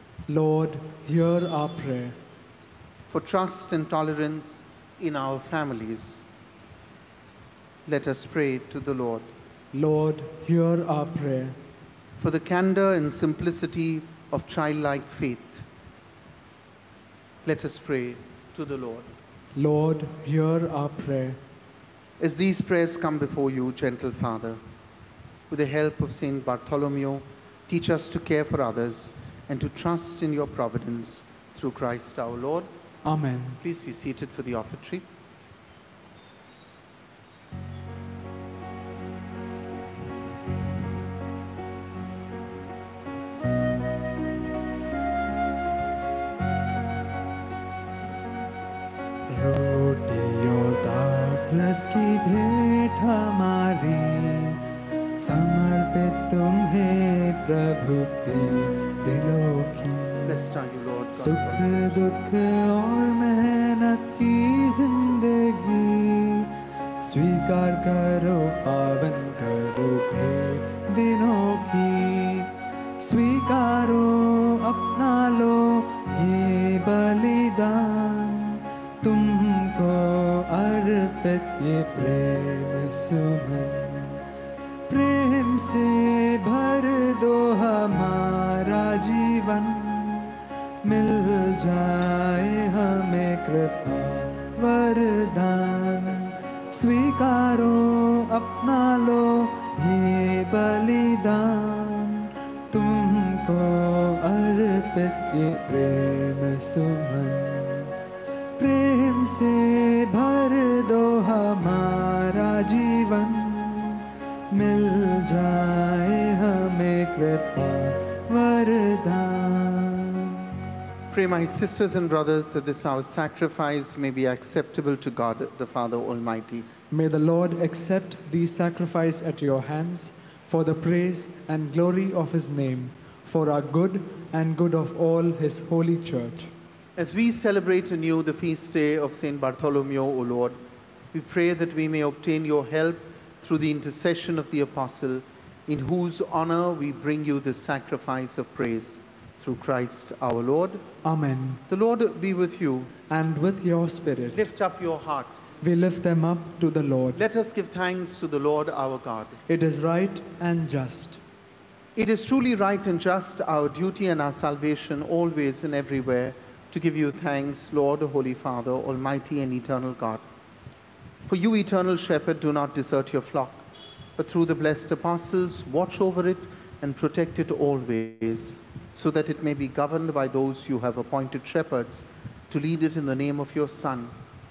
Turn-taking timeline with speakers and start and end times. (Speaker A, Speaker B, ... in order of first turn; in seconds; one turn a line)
Speaker A: 0.3-2.2
Speaker B: 3.1-6.2
Speaker B: 7.9-9.3
Speaker A: 9.7-11.6
Speaker B: 12.2-15.6
Speaker B: 17.4-19.1
Speaker A: 19.6-21.4
Speaker B: 22.2-24.6
Speaker B: 25.5-32.7
Speaker A: 33.0-33.6
Speaker B: 33.6-35.0
Speaker A: 49.3-54.6
Speaker A: 55.2-60.4
Speaker B: 60.2-62.0
Speaker A: 61.1-66.5
Speaker A: 67.0-84.2
Speaker A: 84.9-107.9
Speaker A: 108.6-120.6
Speaker B: 121.1-126.7
Speaker A: 126.9-136.5
Speaker B: 137.0-140.6
Speaker B: 141.1-150.8
Speaker A: 151.0-151.6
Speaker B: 151.7-152.9
Speaker A: 153.1-154.4
Speaker B: 154.3-155.6
Speaker A: 155.6-157.2
Speaker B: 157.1-159.4
Speaker A: 159.5-161.2
Speaker B: 161.9-170.2
Speaker B: 171.3-173.6
Speaker B: 174.2-184.1